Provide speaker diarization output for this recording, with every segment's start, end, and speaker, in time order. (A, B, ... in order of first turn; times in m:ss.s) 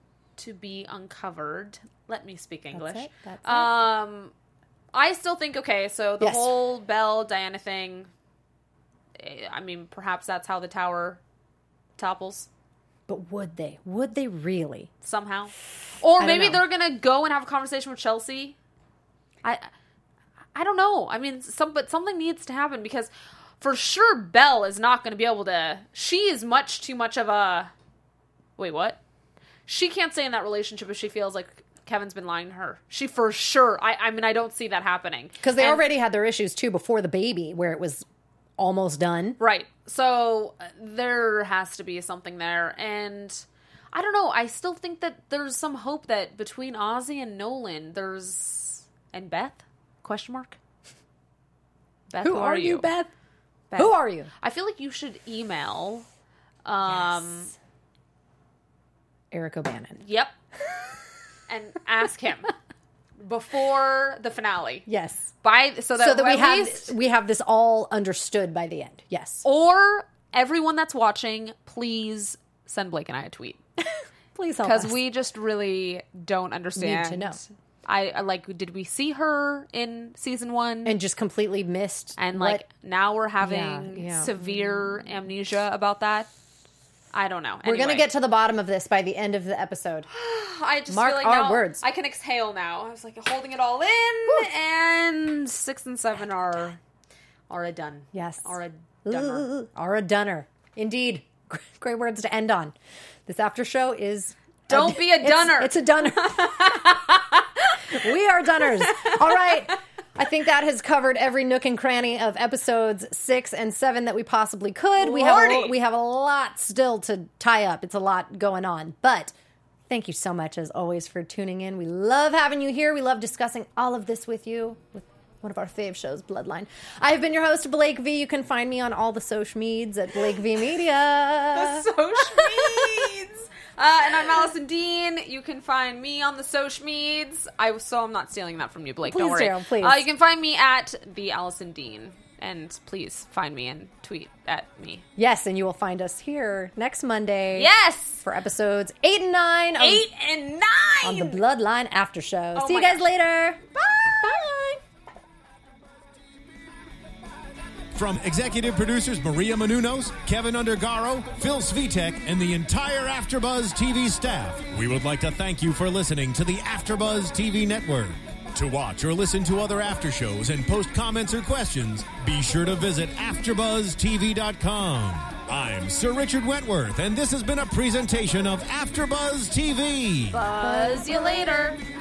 0:00.4-0:04.3 A
0:02.7-0:03.8 B
0:04.9-0:08.1 A
0:06.2-0:06.5 B
0:09.2-0:11.2 A
0:12.0-0:12.5 A
0:13.1-0:14.9 B
0:15.0-0:18.5 A
0:16.2-0:16.6 B
0:19.4-0:19.7 A
0:20.5-0:23.1 A
0:23.6-0:27.7 A
0:28.6-0:29.0 A
0:29.7-0:35.8 A
0:35.4-0:38.0 B
0:38.6-0:39.4 B
0:39.4-0:50.6 A
0:52.1-0:52.9 A
0:52.2-0:53.1 B
0:53.7-0:56.0 A
0:53.8-0:54.3 B
0:56.6-0:57.5 A
0:56.9-0:57.3 B
0:59.3-1:00.0 B
1:00.0-1:00.3 A
1:00.6-1:00.9 B
1:01.5-1:02.5 A
1:03.2-1:04.9 A
1:04.9-1:05.3 B
1:05.4-1:06.9 A
1:06.0-1:09.4 B
1:09.4-1:13.6 A
1:14.3-1:14.9 B
1:14.6-1:21.0 A
1:16.8-1:17.4 B
1:20.8-1:22.6 B
1:22.2-1:26.3 A
1:23.4-1:24.9 B
1:27.1-1:28.1 A
1:27.6-1:30.1 B
1:30.1-1:36.8 A
1:30.9-1:31.8 B
1:37.5-1:39.4 A
1:38.1-1:38.5 B
1:39.0-1:42.7 B
1:43.2-1:47.0 B
1:44.7-1:49.7 A
1:47.9-1:59.3 B
1:55.0-1:55.7 A
1:59.9-2:13.1 B
2:11.5-2:25.0 A
2:19.0-2:20.0 B
2:25.2-2:27.7 B
2:27.6-2:28.2 A
2:28.2-2:30.0 B
2:29.8-2:31.4 A
2:31.0-2:34.8 B
2:32.5-2:33.0 A
2:37.9-3:00.4 C
3:00.3-3:01.8 A
3:00.6-3:01.5 B